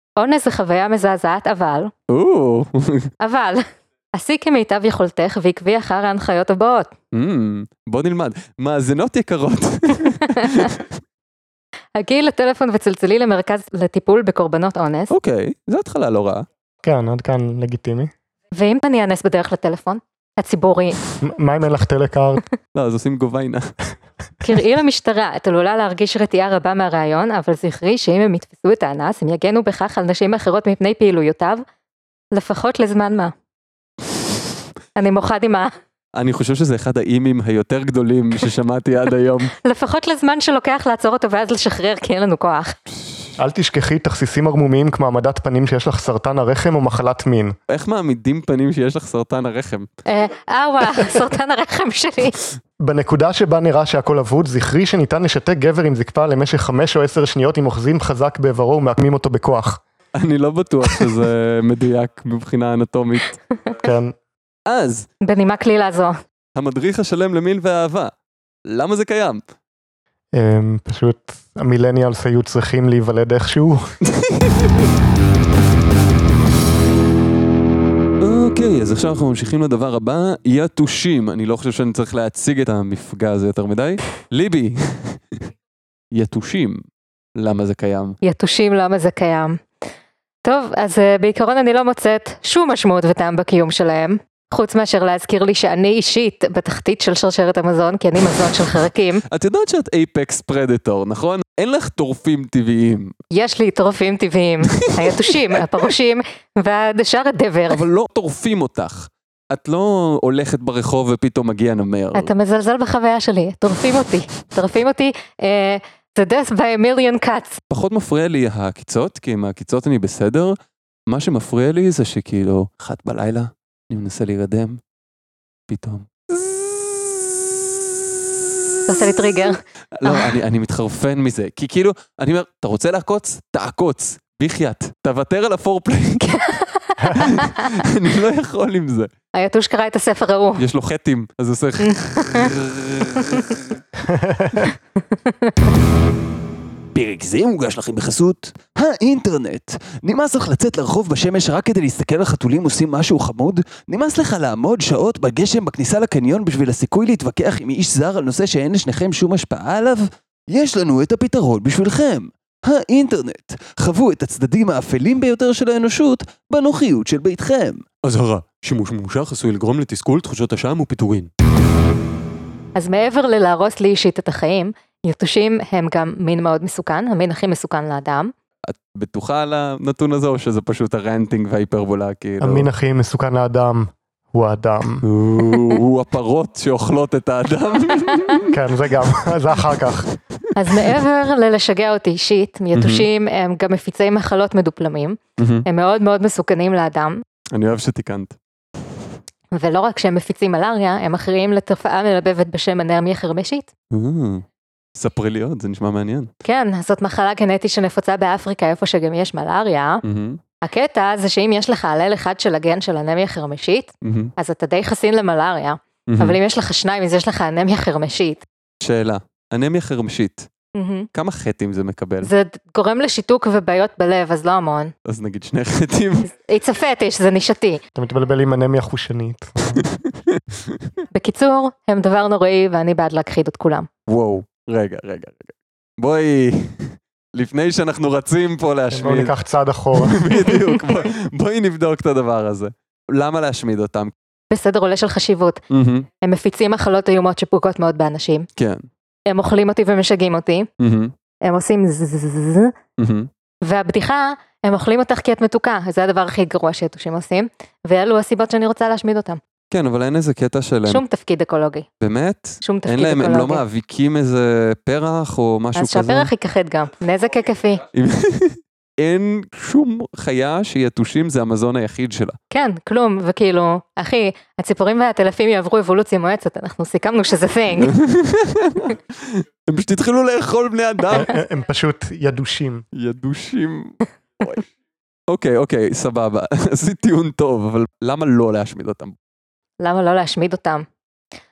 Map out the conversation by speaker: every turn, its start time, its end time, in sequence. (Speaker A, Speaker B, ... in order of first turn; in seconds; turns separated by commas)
Speaker A: 0.2-1.9, Speaker B: 2.1-3.1, Speaker A: 3.2-6.9, Speaker B: 7.1-11.0, Speaker A: 11.9-15.1, Speaker B: 15.1-16.5, Speaker C: 16.9-18.1, Speaker A: 18.5-21.0, Speaker C: 21.2-22.4, Speaker B: 22.8-23.7, Speaker A: 24.4-31.6, Speaker A: 32.3-33.3, Speaker A: 35.0-35.7, Speaker B: 36.1-39.5, Speaker A: 39.6-42.8, Speaker C: 43.4-47.6, Speaker B: 47.7-49.9, Speaker A: 50.0-52.4, Speaker C: 52.8-59.8, Speaker B: 60.1-63.4, Speaker C: 63.8-64.1, Speaker B: 64.7-65.1, Speaker A: 65.2-66.2, Speaker B: 66.5-68.1, Speaker B: 68.7-69.4, Speaker C: 70.3-73.9, Speaker B: 74.2-74.7, Speaker B: 78.2-85.5, Speaker B: 86.1-86.8, Speaker B: 87.4-88.2, Speaker A: 88.2-89.6, Speaker A: 90.5-99.2, Speaker B: 99.3-103.1, Speaker A: 103.3-107.8, Speaker B: 104.8-105.7, Speaker B: 107.7-112.3, Speaker A: 112.1-117.6, Speaker B: 117.7-120.6, Speaker B: 121.1-124.8, Speaker B: 125.7-127.6, Speaker A: 128.9-130.4, Speaker B: 129.9-136.5, Speaker A: 136.4-137.8, Speaker B: 137.1-139.1, Speaker A: 139.3-140.6, Speaker B: 140.6-143.6, Speaker A: 141.8-142.5, Speaker C: 144.0-144.7, Speaker A: 145.3-145.5, Speaker B: 146.9-171.2, Speaker A: 172.8-178.3, Speaker B: 178.7-182.7, Speaker C: 182.4-185.0, Speaker B: 185.0-188.5, Speaker C: 188.5-190.1, Speaker B: 190.5-190.9, Speaker A: 190.5-197.2, Speaker B: 192.7-193.1, Speaker B: 195.4-195.7, Speaker B: 197.5-198.4, Speaker A: 199.5-203.7, Speaker B: 203.9-206.3, Speaker A: 206.4-210.0, Speaker B: 210.0-210.4, Speaker A: 210.6-218.4, Speaker B: 214.0-214.3, Speaker B: 216.1-216.4, Speaker B: 218.8-220.5, Speaker A: 220.8-221.1, Speaker B: 221.1-222.3, Speaker A: 222.2-224.9, Speaker B: 225.0-226.3, Speaker A: 226.5-227.8, Speaker C: 227.9-229.8, Speaker B: 229.8-230.9, Speaker A: 231.1-233.9, Speaker B: 234.1-239.3, Speaker C: 238.9-240.2, Speaker B: 239.9-244.1, Speaker A: 244.5-245.6, Speaker B: 245.7-246.1, Speaker A: 246.2-248.5, Speaker B: 248.6-248.8, Speaker A: 249.3-250.7, Speaker B: 250.8-251.1, Speaker A: 251.4-252.7, Speaker B: 253.0-253.3, Speaker A: 253.6-259.4, Speaker B: 259.7-261.0, Speaker A: 260.9-261.9, Speaker B: 262.0-266.3, Speaker A: 262.6-263.6, Speaker A: 265.8-267.8, Speaker B: 267.9-272.4, Speaker A: 272.5-277.9, Speaker B: 277.8-281.3, Speaker C: 281.1-282.9, Speaker B: 282.9-284.6, Speaker B: 285.3-289.2, Speaker A: 289.8-290.9